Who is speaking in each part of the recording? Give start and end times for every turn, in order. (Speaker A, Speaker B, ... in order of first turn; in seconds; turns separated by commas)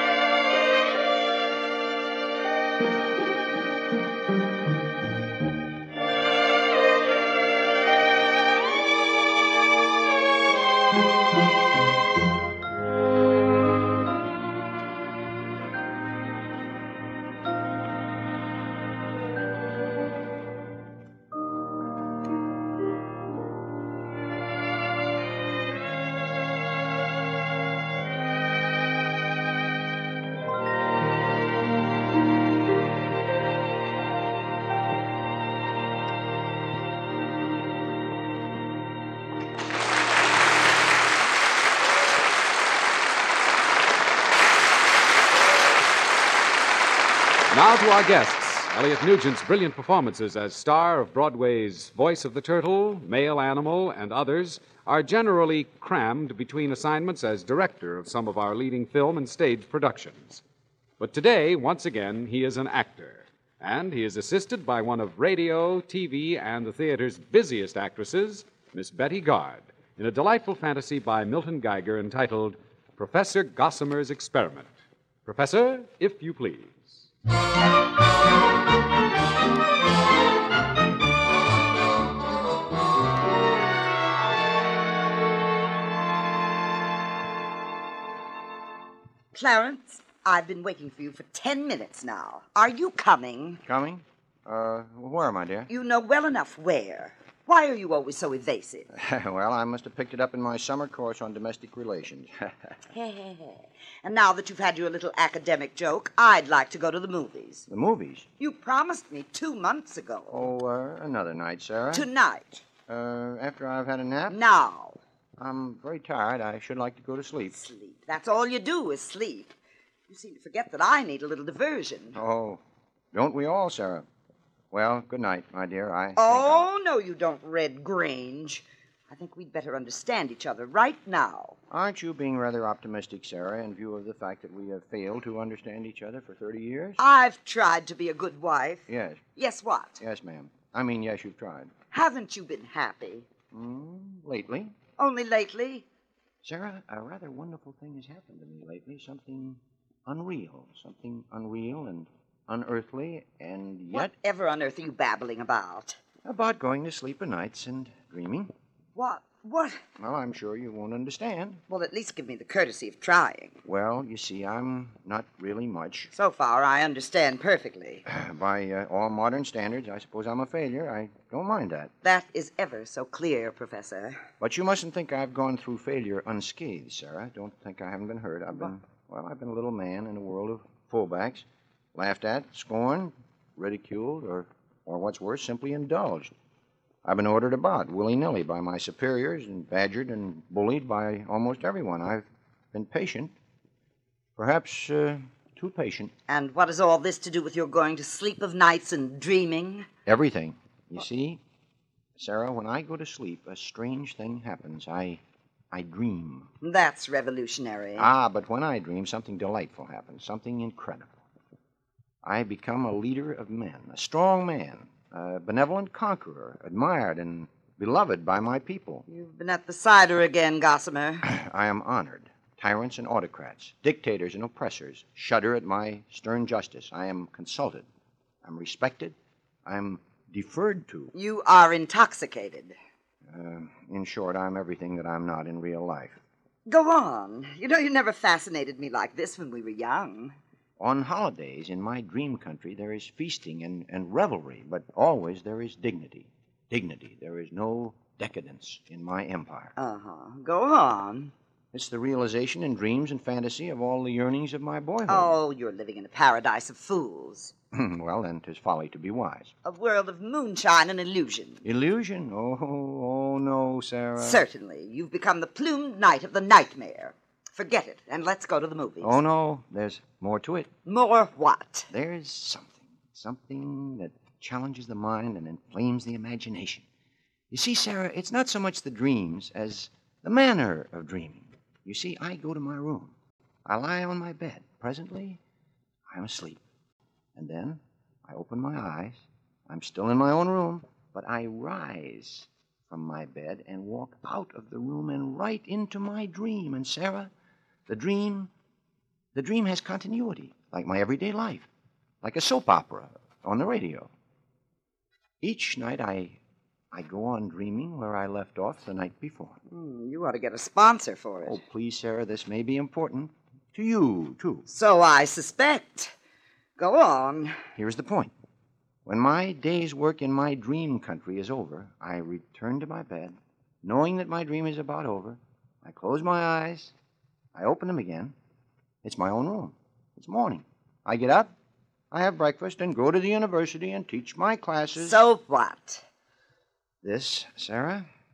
Speaker A: 47.5-60.4, Speaker A: 61.0-74.7, Speaker A: 75.2-77.0, Speaker B: 89.3-93.6, Speaker C: 93.6-95.7, Speaker B: 95.7-98.9, Speaker C: 98.9-102.5, Speaker B: 102.9-107.7, Speaker C: 107.7-108.3, Speaker B: 108.4-110.5, Speaker C: 110.3-112.1, Speaker B: 111.9-112.6, Speaker C: 112.9-114.4, Speaker B: 114.3-115.0, Speaker C: 115.4-117.5, Speaker B: 117.5-119.5, Speaker B: 120.1-122.2, Speaker C: 122.1-122.6, Speaker C: 123.1-124.0, Speaker C: 124.7-126.7, Speaker B: 126.2-131.6, Speaker C: 131.7-137.0, Speaker B: 137.0-140.0, Speaker C: 138.9-139.2, Speaker C: 140.0-141.7, Speaker B: 141.9-143.3, Speaker C: 143.5-144.7, Speaker B: 145.0-145.8, Speaker C: 146.4-154.1, Speaker B: 153.9-156.0, Speaker C: 156.2-158.5, Speaker B: 158.9-159.8, Speaker C: 160.0-161.6, Speaker B: 161.7-163.6, Speaker C: 163.6-166.1, Speaker B: 166.1-168.0, Speaker C: 168.1-171.9, Speaker B: 172.0-174.2, Speaker C: 174.4-186.3, Speaker C: 187.0-193.3, Speaker C: 194.4-196.1, Speaker B: 196.3-199.9, Speaker C: 200.1-201.4, Speaker C: 202.2-206.5, Speaker B: 206.6-208.1, Speaker C: 207.9-211.1, Speaker C: 212.2-219.0, Speaker B: 219.1-221.3, Speaker C: 221.2-227.8, Speaker C: 228.4-231.1, Speaker B: 231.1-232.8, Speaker C: 233.3-236.2, Speaker B: 236.7-240.4, Speaker C: 240.8-249.7, Speaker B: 249.8-251.3, Speaker C: 251.7-255.4, Speaker B: 255.1-257.5, Speaker C: 257.7-259.5, Speaker B: 259.6-261.6, Speaker C: 261.6-264.4, Speaker B: 264.2-269.2, Speaker C: 269.0-270.7, Speaker B: 270.8-271.9, Speaker C: 271.9-276.9, Speaker C: 277.5-283.1, Speaker C: 283.6-285.4, Speaker C: 286.1-286.6, Speaker C: 287.4-297.3, Speaker C: 297.9-298.5, Speaker C: 299.3-301.7, Speaker C: 302.2-304.1, Speaker C: 305.4-306.4, Speaker C: 306.9-309.6, Speaker B: 309.7-311.6, Speaker C: 311.4-314.7, Speaker B: 314.6-316.1, Speaker B: 316.8-317.6, Speaker C: 317.8-318.3, Speaker C: 319.1-326.9, Speaker C: 327.5-328.3, Speaker C: 329.0-331.5, Speaker C: 332.1-335.2, Speaker B: 334.9-336.0, Speaker C: 337.0-338.1